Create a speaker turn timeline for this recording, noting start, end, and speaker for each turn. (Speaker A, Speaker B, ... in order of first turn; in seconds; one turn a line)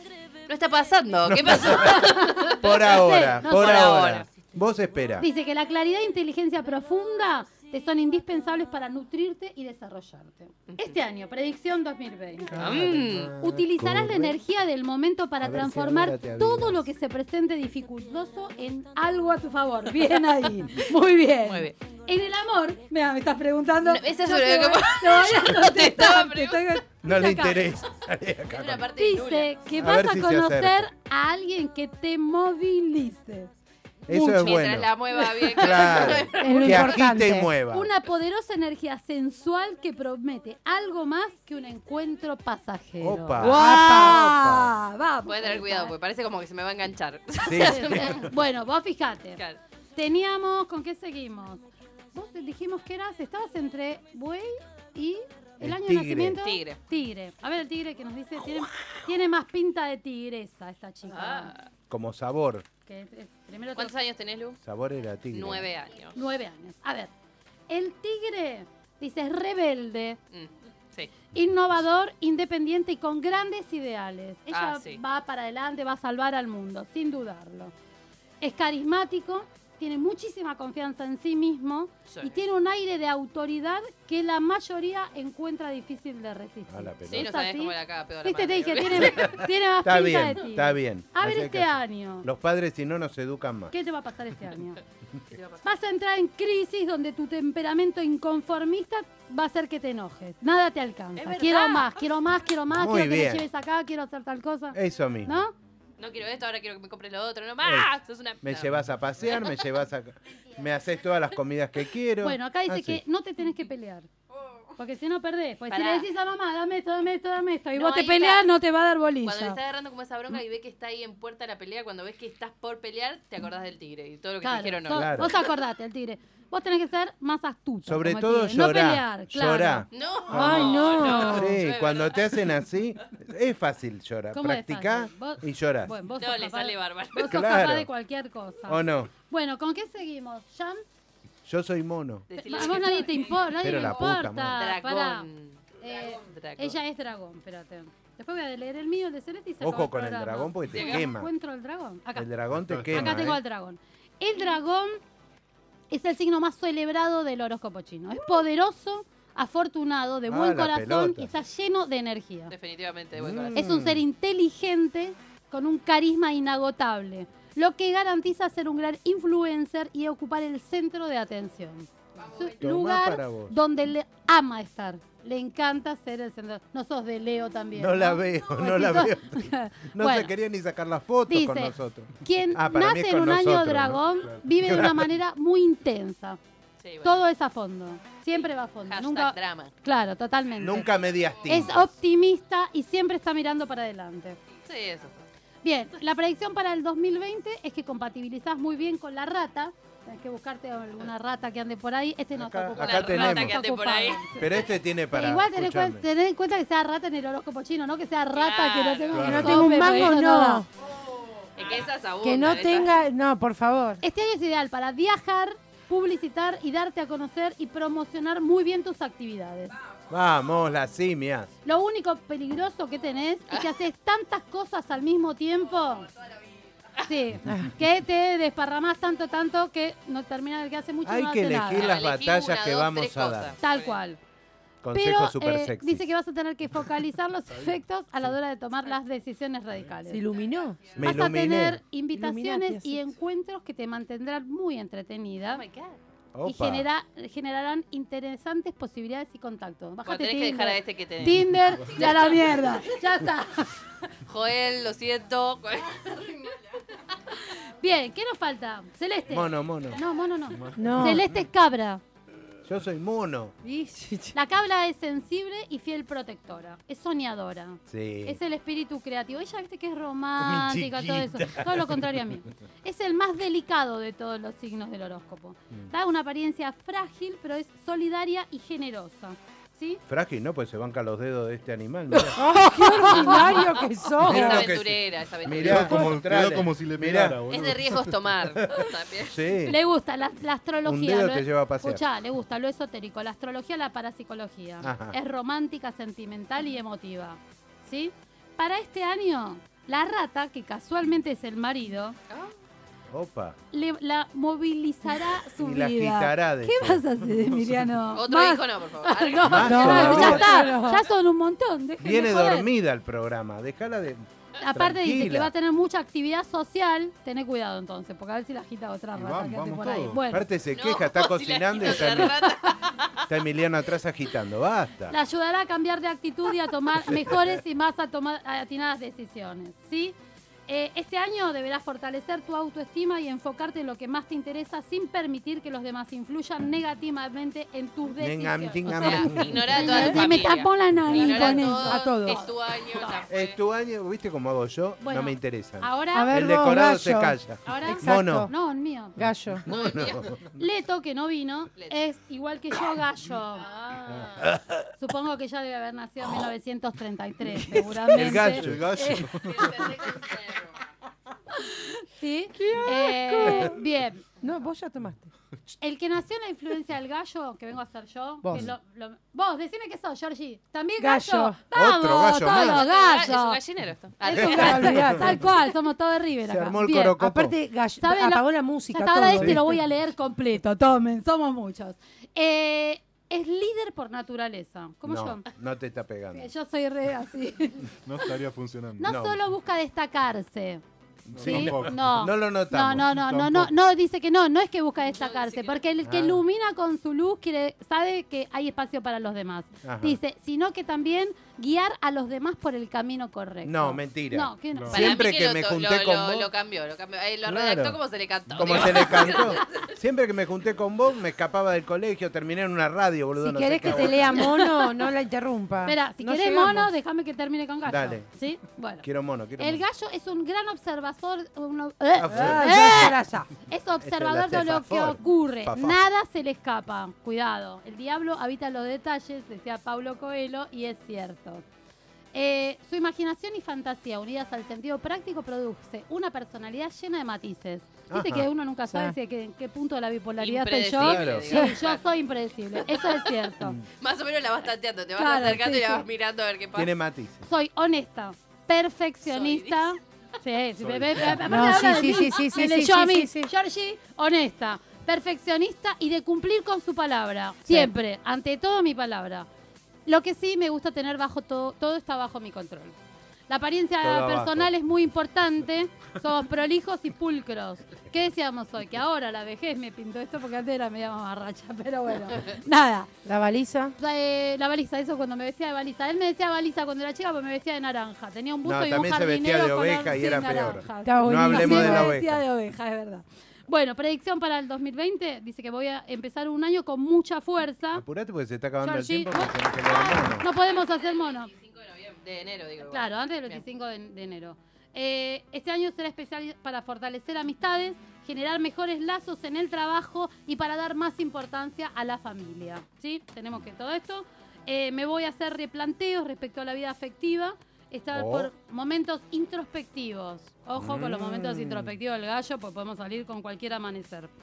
Speaker A: 0.5-2.6
Speaker B: 1.2-5.3
Speaker C: 1.7-4.0
Speaker A: 3.5-4.3
Speaker C: 5.2-27.8
Speaker A: 10.7-10.9
Speaker B: 12.5-14.4
Speaker A: 12.6-13.3
Speaker B: 15.4-16.9
Speaker A: 21.5-21.7
Speaker A: 23.8-26.8
Speaker B: 27.0-28.9
Speaker A: 28.5-29.6
Speaker C: 29.0-33.5
Speaker B: 29.8-30.9
Speaker B: 34.1-34.9
Speaker C: 34.1-34.6
Speaker A: 34.2-37.0
Speaker C: 35.4-36.5
Speaker B: 35.5-37.9
Speaker D: 36.4-37.5
Speaker C: 37.7-45.9
Speaker B: 43.0-44.7
Speaker D: 43.4-44.2
Speaker A: 45.3-48.3
Speaker B: 47.5-48.3
Speaker C: 47.6-49.4
Speaker C: 50.0-61.5
Speaker B: 55.6-56.4
Speaker A: 56.4-56.8
Speaker A: 61.1-61.7
Speaker B: 61.9-62.6
Speaker C: 62.9-64.0
Speaker A: 63.8-64.6
Speaker B: 64.6-65.7
Speaker A: 65.3-66.2
Speaker C: 66.1-67.1
Speaker C: 67.7-70.2
Speaker A: 70.3-71.1
Speaker C: 71.3-77.7
Speaker A: 74.5-75.0
Speaker C: 78.4-92.3
Speaker A: 82.1-82.4
Speaker B: 86.7-87.3
Speaker A: 87.1-89.3
Speaker B: 89.0-93.7
Speaker C: 93.7-94.8
Speaker A: 95.3-95.7
Speaker C: 95.6-105.5
Speaker A: 101.2-102.0
Speaker B: 102.7-103.5
Speaker B: 104.7-105.4
Speaker A: 106.0-108.8
Speaker B: 107.6-107.9
Speaker B: 108.4-113.0
Speaker A: 109.3-109.6
Speaker C: 112.2-114.1
Speaker C: 114.8-119.6
Speaker A: 115.7-116.1
Speaker A: 117.8-118.5
Speaker A: 119.2-125.5
Speaker C: 124.4-129.9
Speaker B: 124.9-125.3
Speaker B: 127.9-135.9
Speaker A: 129.9-132.5
Speaker D: 130.3-131.6
Speaker C: 134.3-140.8
Speaker A: 136.2-137.3
Speaker B: 137.2-137.9
Speaker B: 138.7-139.1
Speaker B: 141.5-142.3
Speaker A: 142.3-144.0
Speaker C: 142.4-145.3
Speaker B: 143.6-144.6
Speaker A: 144.6-146.8
Speaker C: 145.8-152.3
Speaker B: 149.6-151.3
Speaker A: 150.7-151.1
Speaker B: 152.2-153.4
Speaker E: 152.6-153.2
Speaker C: 152.9-155.0
Speaker C: 155.9-162.5
Speaker B: 160.3-161.3
Speaker A: 162.5-163.6
Speaker B: 163.2-164.0
Speaker C: 163.6-180.3
Speaker B: 172.6-173.6
Speaker B: 177.8-184.0
Speaker C: 181.3-186.4
Speaker B: 184.6-185.1
Speaker A: 186.8-187.2
Speaker C: 187.0-190.9
Speaker A: 188.9-189.7
Speaker B: 190.6-191.9
Speaker C: 191.5-194.4
Speaker A: 194.7-195.3
Speaker C: 195.6-204.6
Speaker B: 202.4-203.6
Speaker A: 202.8-204.6
Speaker B: 204.4-206.0
Speaker C: 205.1-210.7
Speaker A: 208.3-209.7
Speaker D: 209.2-210.7
Speaker A: 211.6-213.0
Speaker D: 212.2-214.0
Speaker C: 214.0-219.8
Speaker B: 220.1-221.5
Speaker C: 221.7-226.1
Speaker A: 223.5-223.8
Speaker C: 227.0-231.9
Speaker B: 231.0-233.6
Speaker A: 231.7-234.0
Speaker C: 233.6-234.2
Speaker B: 234.8-236.1
Speaker C: 234.9-240.2
Speaker E: 237.5-237.8
Speaker D: 240.1-240.9
Speaker C: 240.9-245.6
Speaker B: 241.0-241.8
Speaker D: 242.1-243.1
Speaker A: 245.5-246.0
Speaker B: 246.3-246.9
Speaker C: 246.4-253.8
Speaker A: 250.1-252.2
Speaker A: 254.2-256.6
Speaker C: 257.3-262.0
Speaker B: 259.3-260.0
Speaker E: 260.6-261.2
Speaker D: 260.8-261.3
Speaker B: 262.6-263.5
Speaker D: 263.6-264.4
Speaker C: 264.3-280.0
Speaker B: 267.9-268.4
Speaker B: 270.4-272.1
Speaker B: 280.1-282.4
Speaker C: 282.2-283.6
Speaker D: 282.3-284.7
Speaker A: 283.5-286.2
Speaker B: 284.2-287.4
Speaker E: 285.5-288.1
Speaker A: 287.5-289.4
Speaker B: 288.8-289.8
Speaker C: 289.7-302.2
Speaker B: 290.9-292.0
Speaker B: 294.8-295.2
Speaker B: 303.1-303.6
Speaker C: 303.7-312.7
Speaker B: 305.6-307.1
Speaker A: 308.1-310.2
Speaker B: 309.4-310.6
Speaker D: 309.6-311.1
Speaker B: 312.0-315.5
Speaker C: 314.6-320.4
Speaker E: 319.2-320.3
Speaker B: 320.3-322.4
Speaker A: 320.7-323.2
Speaker C: 322.4-322.7
Speaker B: 323.3-325.2
Speaker C: 325.1-330.1
Speaker C: 330.7-343.2
Speaker B: 338.2-340.5
Speaker A: 338.9-343.6
Speaker D: 339.9-340.2
Speaker D: 341.1-342.4
Speaker B: 343.3-348.5
Speaker C: 345.0-346.3
Speaker D: 346.1-348.5
Speaker C: 347.6-349.2
Speaker D: 349.2-349.6
Speaker B: 349.6-350.4
Speaker A: 349.7-350.4
Speaker C: 350.6-353.7
Speaker A: 353.6-354.5
Speaker B: 354.1-354.9
Speaker C: 355.0-359.4
Speaker B: 358.1-358.8
Speaker E: 358.1-359.9
Speaker A: 359.4-360.9
Speaker C: 361.5-364.2
Speaker D: 362.6-363.8
Speaker B: 363.4-363.7
Speaker D: 364.4-365.3
Speaker C: 365.8-373.6
Speaker D: 368.4-368.7
Speaker D: 371.0-371.6
Speaker B: 371.7-372.8
Speaker A: 372.5-374.9
Speaker C: 374.2-377.2
Speaker D: 374.3-375.5
Speaker B: 376.5-377.6
Speaker D: 377.2-379.8
Speaker C: 378.0-385.4
Speaker B: 385.1-386.5
Speaker C: 386.3-388.3
Speaker E: 388.1-389.1
Speaker C: 389.0-390.8
Speaker B: 389.0-389.4
Speaker B: 391.3-393.1
Speaker E: 391.3-391.9
Speaker C: 391.4-405.2
Speaker E: 393.1-393.7
Speaker A: 395.1-395.8
Speaker B: 396.0-396.4
Speaker B: 399.8-400.2
Speaker B: 403.6-406.5
Speaker A: 404.9-409.9
Speaker B: 407.5-414.5
Speaker D: 413.4-416.9
Speaker C: 413.9-415.0
Speaker C: 415.9-419.1
Speaker B: 417.9-418.3
Speaker B: 419.0-419.8
Speaker C: 419.6-431.6
Speaker B: 422.2-423.1
Speaker D: 422.3-423.5
Speaker B: 424.0-426.0
Speaker C: 432.3-443.8
Speaker B: 438.1-438.5
Speaker D: 438.9-439.2
Speaker A: 440.4-442.1
Speaker B: 441.0-441.5
Speaker A: 442.8-443.5
Speaker A: 444.0-446.9
Speaker C: 445.2-446.1
Speaker B: 446.7-447.4
Speaker C: 447.4-459.5
Speaker A: 449.3-449.9
Speaker E: 450.8-452.0
Speaker D: 451.4-453.5
Speaker C: 460.1-463.0
Speaker C: 463.5-473.1
Speaker B: 464.0-464.7
Speaker D: 473.2-473.9
Speaker C: 474.0-488.0
Speaker B: 478.6-482.4
Speaker D: 481.0-482.1
Speaker B: 487.9-490.5
Speaker C: 488.8-491.5
Speaker A: 490.7-493.6
Speaker C: 492.8-514.3
Speaker B: 508.1-508.5
Speaker B: 510.8-511.9